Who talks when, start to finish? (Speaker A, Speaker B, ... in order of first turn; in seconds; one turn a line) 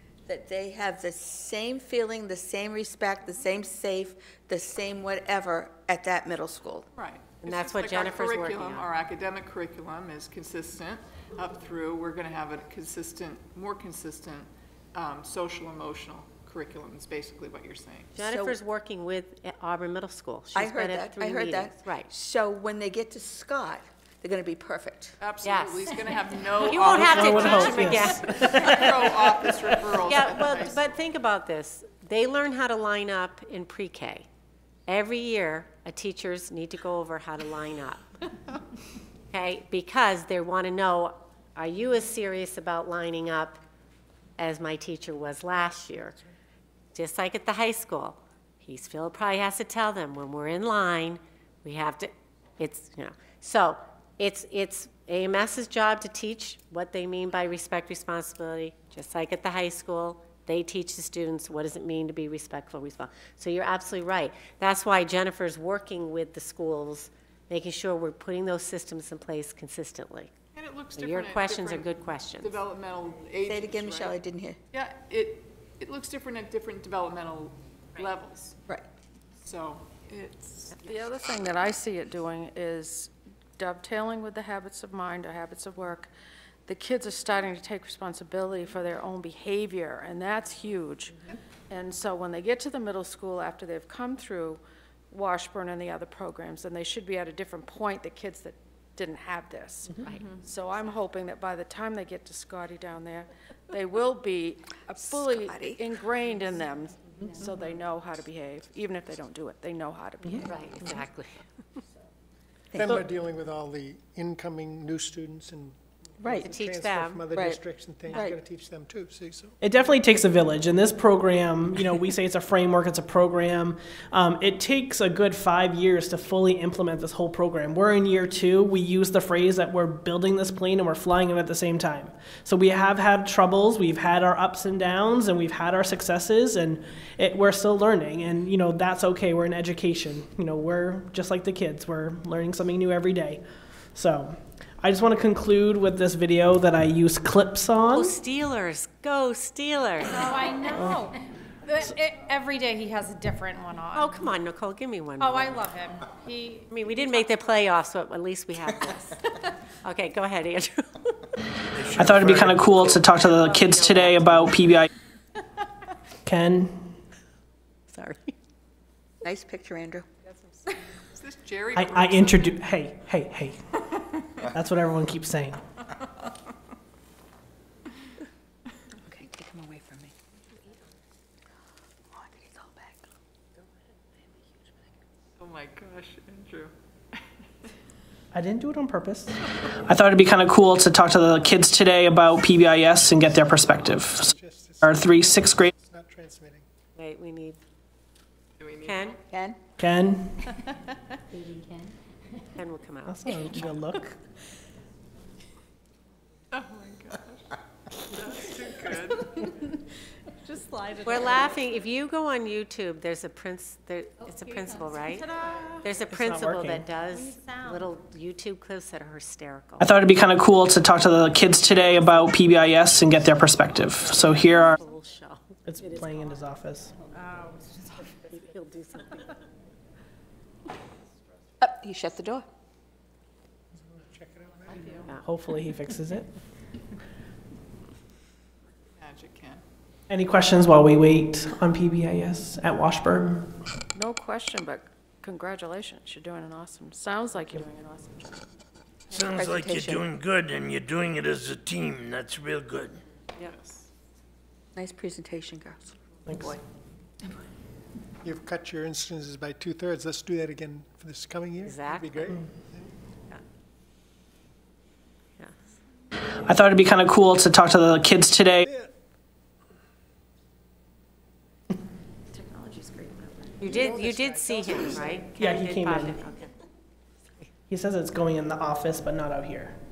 Speaker A: 0.3-6.9
Speaker B: 6.9-18.1
Speaker C: 7.4-8.9
Speaker C: 18.1-22.1
Speaker A: 18.1-18.6
Speaker A: 20.5-25.1
Speaker B: 25.2-31.0
Speaker C: 25.4-26.0
Speaker C: 26.6-28.9
Speaker D: 26.8-29.0
Speaker C: 29.9-34.2
Speaker C: 34.9-38.0
Speaker C: 39.3-43.6
Speaker C: 44.4-46.2
Speaker C: 46.9-70.3
Speaker B: 70.5-74.2
Speaker C: 71.0-72.6
Speaker A: 73.5-74.6
Speaker B: 74.7-78.5
Speaker B: 79.4-81.0
Speaker E: 80.9-86.1
Speaker E: 86.7-91.1
Speaker E: 91.7-99.9
Speaker C: 100.0-100.4
Speaker E: 100.4-110.7
Speaker A: 105.0-105.8
Speaker F: 107.1-107.4
Speaker C: 110.5-111.4
Speaker A: 112.7-113.0
Speaker G: 112.8-119.5
Speaker A: 116.2-116.5
Speaker C: 116.4-117.2
Speaker A: 117.3-117.6
Speaker A: 118.1-118.4
Speaker D: 119.6-143.4
Speaker D: 143.9-148.1
Speaker C: 147.9-150.7
Speaker F: 150.1-154.1
Speaker D: 150.7-151.0
Speaker C: 153.9-155.7
Speaker F: 155.2-157.2
Speaker C: 156.7-159.2
Speaker C: 159.8-161.3
Speaker H: 161.7-163.1
Speaker D: 162.0-164.9
Speaker C: 163.2-164.8
Speaker D: 166.2-166.9
Speaker C: 167.9-168.3
Speaker A: 169.2-170.1
Speaker B: 171.1-172.6
Speaker D: 171.7-173.6
Speaker D: 174.4-175.6
Speaker A: 179.1-180.1
Speaker A: 182.1-183.0
Speaker B: 185.4-187.2
Speaker D: 188.3-195.7
Speaker G: 192.9-196.6
Speaker C: 196.9-197.6
Speaker B: 198.6-199.2
Speaker C: 198.8-199.2
Speaker A: 199.3-199.6
Speaker D: 199.8-200.5
Speaker F: 201.3-201.9
Speaker C: 202.6-203.7
Speaker D: 203.1-204.2
Speaker B: 206.5-209.6
Speaker F: 210.4-211.6
Speaker C: 211.0-219.9
Speaker F: 214.6-215.9
Speaker D: 216.1-216.9
Speaker F: 217.1-217.9
Speaker D: 219.8-224.8
Speaker C: 224.0-226.3
Speaker D: 225.6-226.9
Speaker F: 227.1-228.0
Speaker C: 228.1-229.3
Speaker A: 231.6-232.5
Speaker G: 233.7-235.2
Speaker D: 235.2-236.3
Speaker B: 239.0-239.6
Speaker D: 240.1-243.5
Speaker E: 243.9-248.4
Speaker A: 249.1-250.0
Speaker H: 249.1-253.0
Speaker B: 253.4-253.9
Speaker A: 254.7-256.6
Speaker G: 258.2-262.9
Speaker C: 261.6-262.4
Speaker D: 266.5-268.6
Speaker G: 268.6-268.9
Speaker E: 272.3-272.7
Speaker F: 273.0-273.4
Speaker C: 273.6-276.6
Speaker G: 273.6-275.3
Speaker D: 275.4-276.2
Speaker D: 277.7-279.7